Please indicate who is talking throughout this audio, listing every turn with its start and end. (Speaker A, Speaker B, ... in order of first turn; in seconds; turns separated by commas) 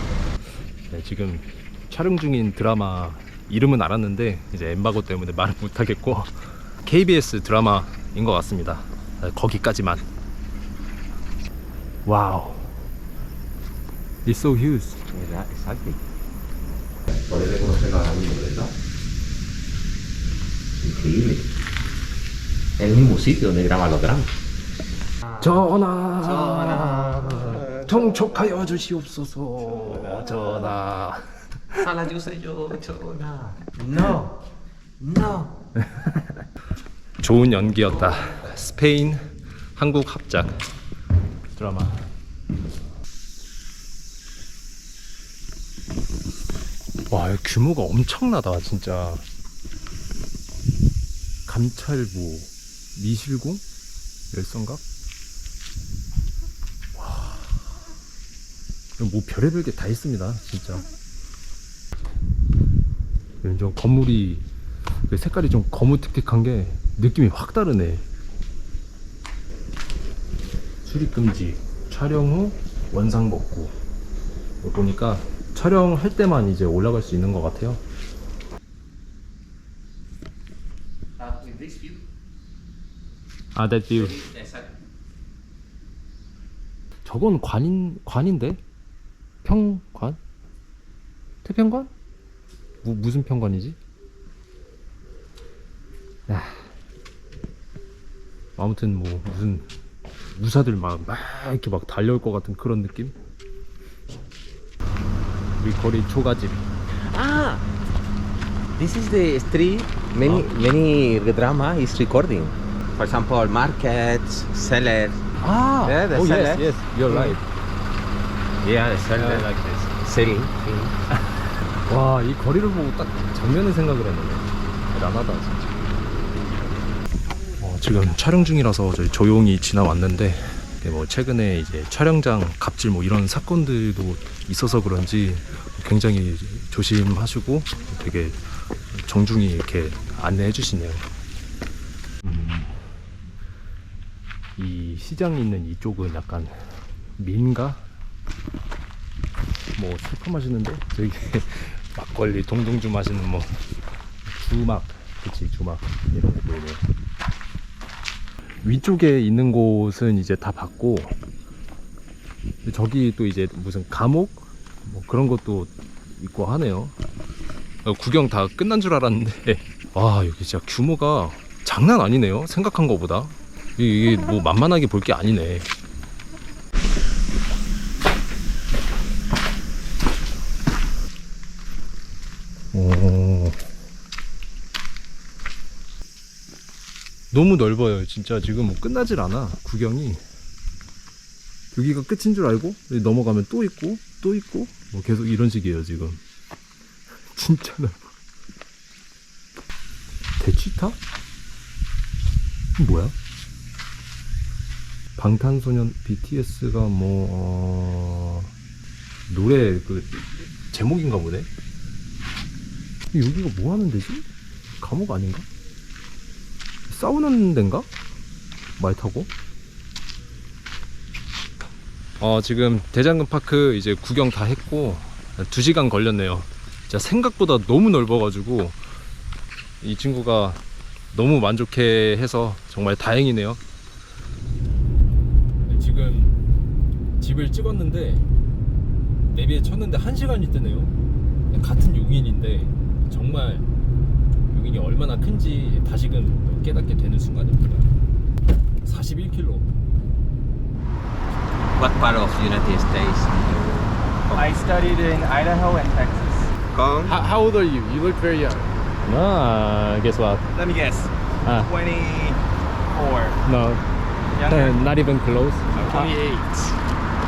Speaker A: 0.9-10.1, Speaker A: 12.1-12.8, Speaker A: 14.2-15.0, Speaker B: 15.1-16.0, Speaker B: 17.1-18.7, Speaker B: 20.8-21.5, Speaker B: 22.8-24.3, Speaker A: 25.4-31.9, Speaker B: 26.2-27.6, Speaker B: 31.8-34.4, Speaker B: 35.0-35.6, Speaker A: 35.8-36.3, Speaker A: 37.2-40.6, Speaker B: 37.9-38.2, Speaker A: 41.5-42.0, Speaker A: 47.1-49.2, Speaker A: 51.5-53.6, Speaker A: 54.3-54.8, Speaker A: 57.0-57.6, Speaker A: 59.0-60.9, Speaker A: 63.4-64.5, Speaker A: 65.1-68.0, Speaker A: 70.8-73.8, Speaker A: 74.6-77.8, Speaker B: 81.2-82.0, Speaker A: 83.5-84.2, Speaker B: 83.9-84.7, Speaker A: 87.0-88.6, Speaker A: 89.4-90.2, Speaker A: 91.4-91.9, Speaker A: 92.8-93.8, Speaker A: 96.3-96.7, Speaker A: 98.6-99.7, Speaker A: 100.3-103.2, Speaker A: 105.6-106.7, Speaker B: 107.0-107.6, Speaker B: 108.8-115.2, Speaker A: 110.2-110.5, Speaker A: 115.4-117.4, Speaker B: 115.8-117.4, Speaker B: 118.6-121.0, Speaker A: 119.1-119.9, Speaker A: 121.9-125.9, Speaker A: 127.6-141.1, Speaker A: 142.2-142.8, Speaker A: 144.6-147.8, Speaker A: 149.8-153.6, Speaker A: 154.3-156.8, Speaker A: 158.6-161.1, Speaker A: 162.6-166.9, Speaker A: 167.8-175.7, Speaker A: 182.7-183.7, Speaker A: 187.3-190.2, Speaker A: 191.7-196.2, Speaker A: 197.3-198.1, Speaker A: 200.4-201.0, Speaker A: 202.8-203.2, Speaker A: 205.2-208.5, Speaker A: 209.3-211.5, Speaker A: 213.1-214.2, Speaker A: 214.8-215.5, Speaker A: 216.9-217.9, Speaker A: 218.8-219.3, Speaker A: 222.2-228.8, Speaker A: 229.8-230.6, Speaker A: 231.1-233.6, Speaker A: 235.7-236.3, Speaker A: 237.2-238.3, Speaker A: 239.3-240.9, Speaker A: 241.5-243.7, Speaker A: 244.5-247.9, Speaker A: 248.8-249.7, Speaker B: 251.8-254.5, Speaker C: 254.3-256.5, Speaker B: 256.7-257.2, Speaker C: 257.2-258.7, Speaker A: 259.1-260.4, Speaker C: 260.5-262.4, Speaker A: 261.4-261.7, Speaker C: 262.9-263.4, Speaker A: 263.4-263.8, Speaker C: 264.4-264.8, Speaker A: 264.4-266.1, Speaker C: 265.8-266.8